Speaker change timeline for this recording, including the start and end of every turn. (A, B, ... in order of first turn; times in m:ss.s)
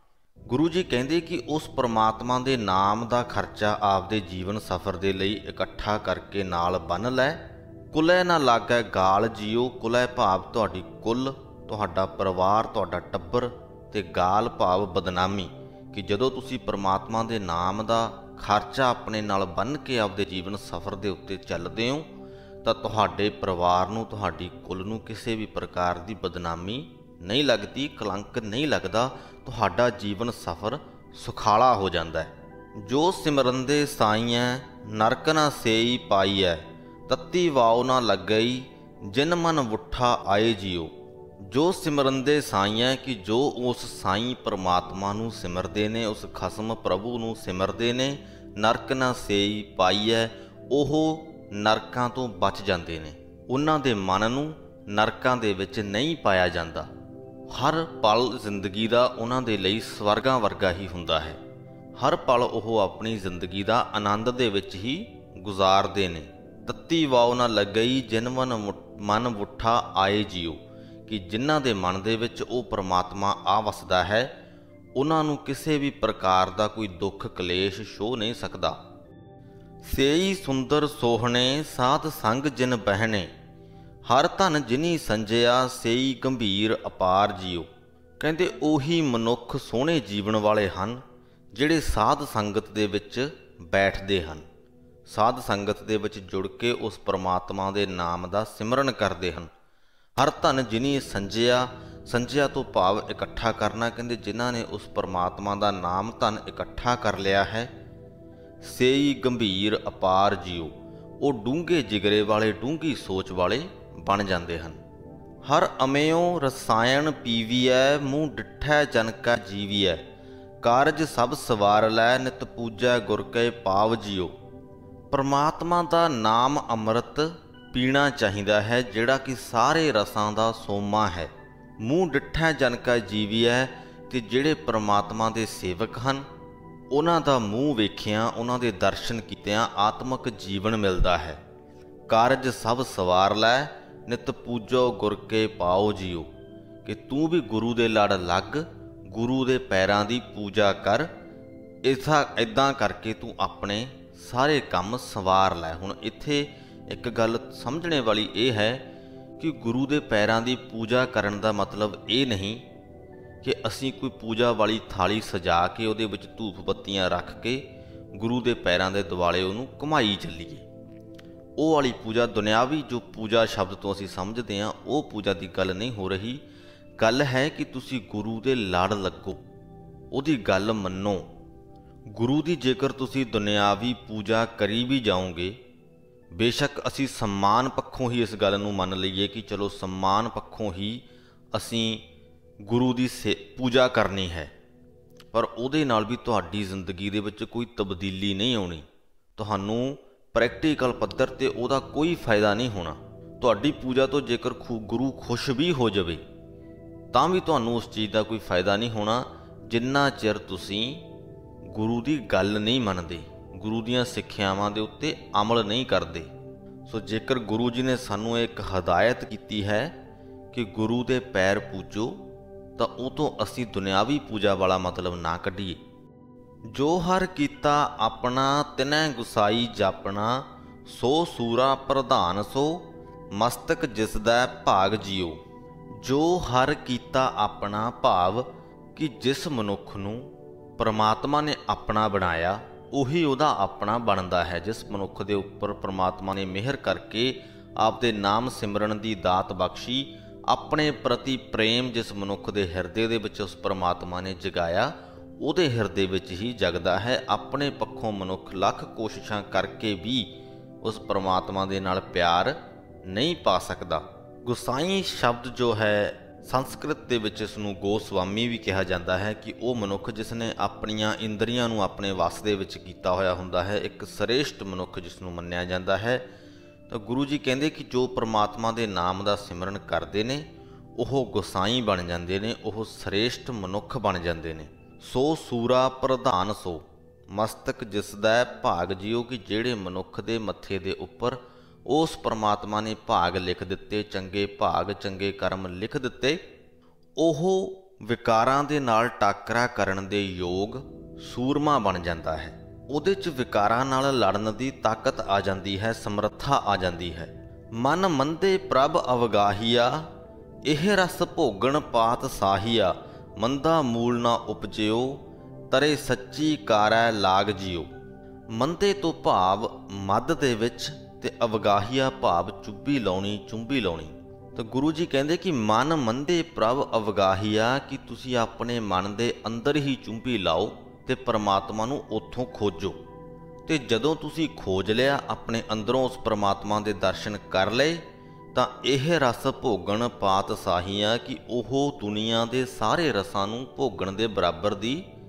0:00.5-0:22.1 A
0:22.6-0:40.9 A
0:41.4-0:56.9 A
0:57.5-1:01.4 A
1:02.0-1:14.3 A
1:15.0-1:18.8 A
1:19.8-1:23.3 A
1:24.0-1:31.0 A
1:31.5-1:34.4 A
1:35.1-1:39.5 A
1:40.2-1:47.7 A
1:48.6-1:54.8 A
1:55.4-2:00.0 A
2:00.6-2:04.3 A
2:05.1-2:16.2 A
2:16.9-2:21.4 A
2:22.1-2:26.3 A
2:26.8-2:31.1 A
2:31.8-2:38.8 A
2:39.4-2:42.6 A
2:43.4-2:50.6 A
2:51.6-2:56.4 A
2:57.0-2:59.4 A
3:00.1-3:01.2 A
3:02.1-3:05.6 A
3:06.3-3:12.0 A
3:12.6-3:14.5 A
3:15.3-3:26.2 A
3:27.1-3:31.0 A
3:31.6-3:36.3 A
3:36.8-3:39.9 A
3:40.5-3:42.2 A
3:42.8-3:45.8 A
3:46.7-3:55.4 A
3:55.9-4:36.2 A
4:36.9-4:56.4 A
4:57.2-5:10.1 A
5:10.6-5:18.0 A
5:18.5-5:33.0 A
5:33.6-5:45.0 A